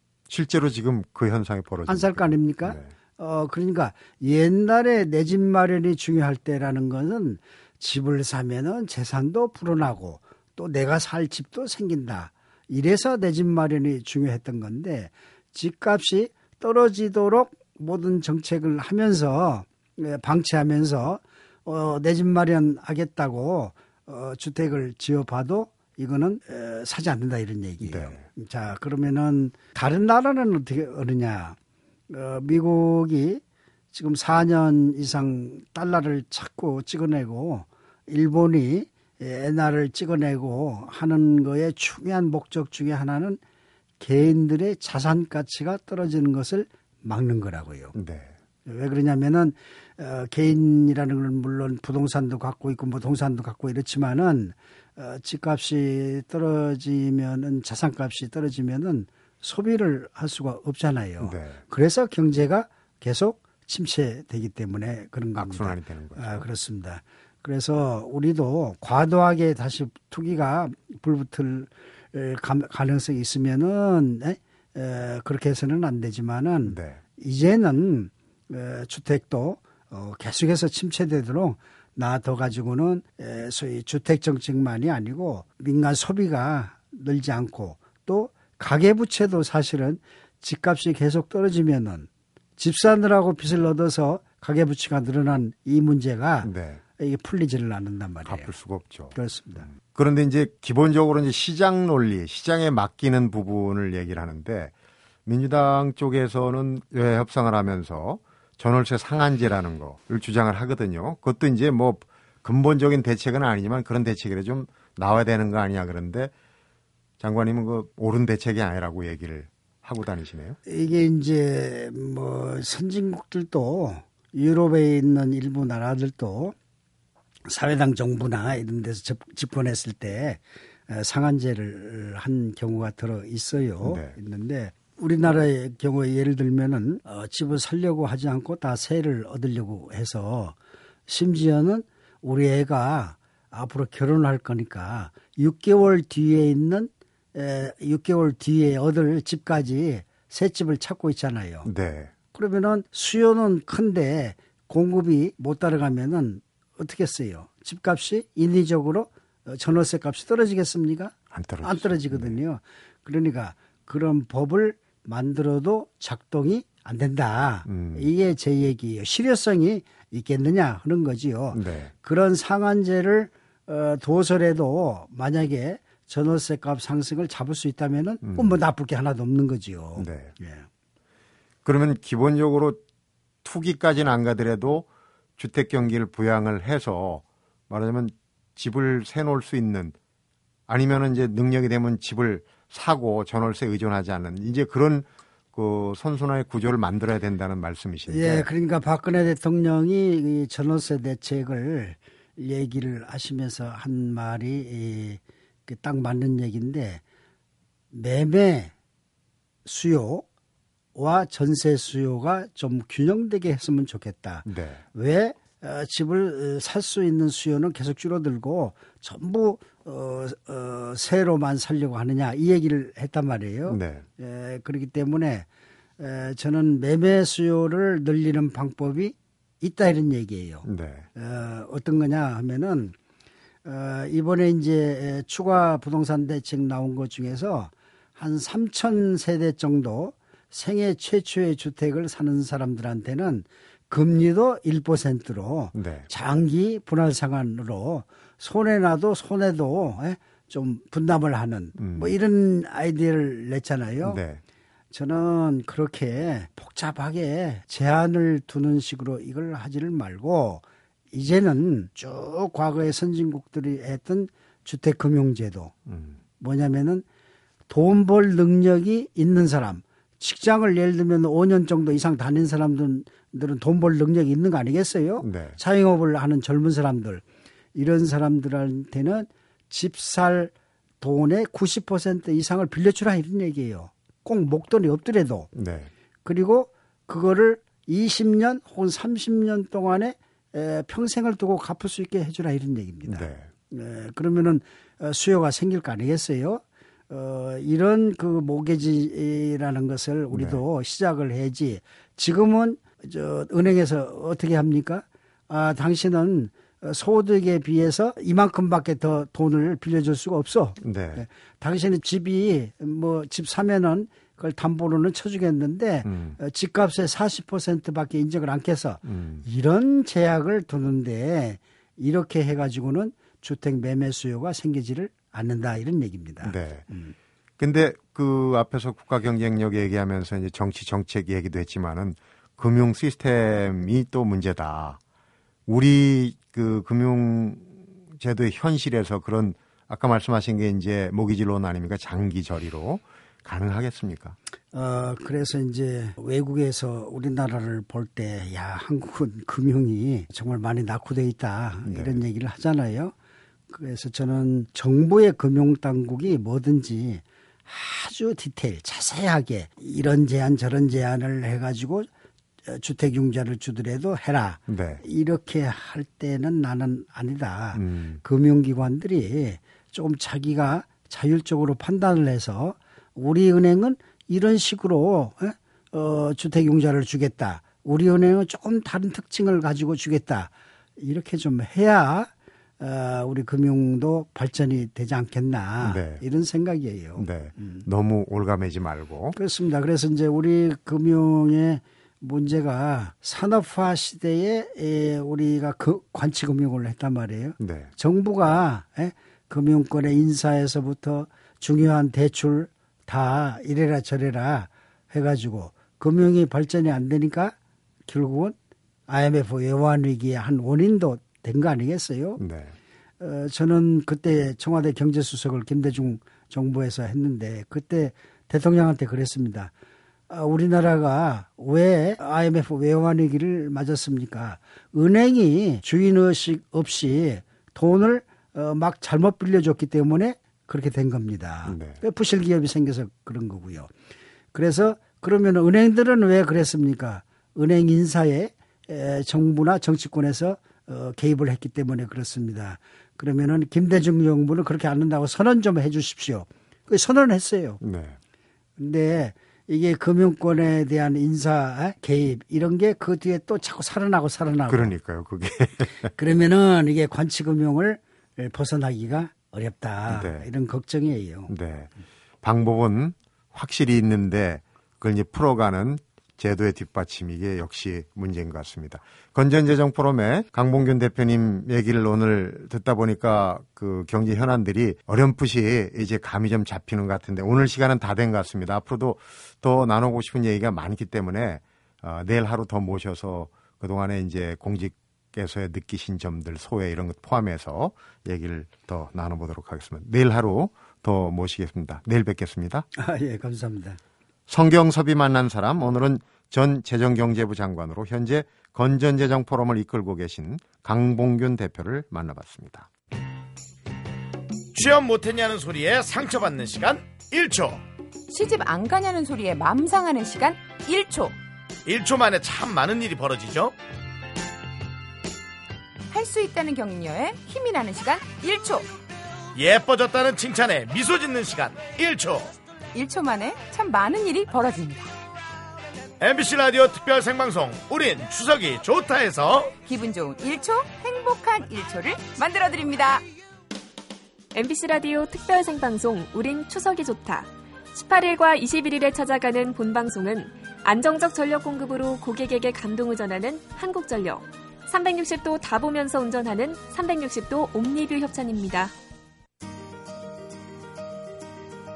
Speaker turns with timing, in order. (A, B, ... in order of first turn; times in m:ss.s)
0:00.3-0:02.9 A
0:01.9-0:31.6 B
0:27.8-0:28.2 A
0:32.1-0:33.4 B
0:33.9-0:43.4 B
0:44.0-0:48.0 B
0:47.9-0:48.3 A
0:48.6-1:38.5 B
1:01.2-1:01.6 A
1:05.3-1:06.4 A
1:16.6-1:17.0 A
1:36.4-1:36.8 A
1:38.2-1:39.2 A
1:39.1-1:39.7 B
1:39.7-1:44.7 A
1:45.2-1:56.3 A
1:57.2-2:00.6 A
2:00.6-2:06.5 B
2:07.4-2:20.5 B
2:13.8-2:14.2 A
2:21.1-2:31.7 B
2:31.6-2:32.1 A
2:32.3-3:00.6 B
2:41.3-2:42.4 A
2:47.7-2:48.1 A
2:51.5-2:51.9 A
2:58.2-2:58.5 A
3:00.0-3:00.3 A
3:01.6-3:02.8 A
3:03.4-3:09.9 A
3:10.7-3:18.5 A
3:18.1-3:27.0 B
3:27.9-3:28.7 B
3:29.6-3:30.2 B
3:30.9-3:45.5 B
3:34.4-3:34.8 A
3:43.7-3:44.0 A
3:46.0-3:52.9 B
3:50.6-3:51.1 A
3:53.6-4:14.2 B
4:05.7-4:06.1 A
4:11.8-4:12.1 A
4:14.0-4:14.4 A
4:14.9-4:25.7 B
4:25.9-4:26.2 A
4:26.4-4:27.0 B
4:27.7-4:37.2 B
4:35.2-4:35.6 A
4:37.7-4:45.5 B
4:45.5-4:45.9 A
4:46.2-5:27.1 B
4:53.1-4:53.5 A
5:00.3-5:00.6 A
5:10.8-5:11.2 A
5:16.0-5:16.4 A
5:19.0-5:19.4 A
5:26.4-5:26.8 A
5:27.6-5:35.0 A
5:35.7-5:44.4 A
5:44.7-5:53.1 B
5:51.8-5:52.2 A
5:53.7-6:02.1 B
6:02.6-6:27.8 B
6:04.7-6:05.0 A
6:07.7-6:08.2 A
6:25.8-6:26.2 A
6:27.2-6:29.4 A
6:29.3-6:47.5 B
6:37.6-6:37.9 A
6:48.1-6:48.6 B
6:49.1-6:52.4 B
6:52.4-6:52.7 A
6:53.2-6:59.7 B
7:00.3-7:13.9 B
7:11.7-7:12.0 A
7:14.5-7:27.8 B
7:27.8-7:28.2 A
7:28.8-7:34.9 B
7:34.7-7:36.1 A
7:36.0-7:41.5 B
7:40.1-7:40.5 A
7:41.5-7:41.9 A
7:42.4-8:12.8 A
8:13.0-8:14.0 B
8:14.5-8:22.9 A
8:24.7-8:27.8 C
8:28.3-8:31.4 D
8:31.8-8:33.7 C
8:36.1-8:38.9 D
8:39.6-8:42.5 C
8:42.9-8:45.1 D
8:46.2-8:49.7 C
8:49.8-8:53.2 D
8:54.5-9:08.9 E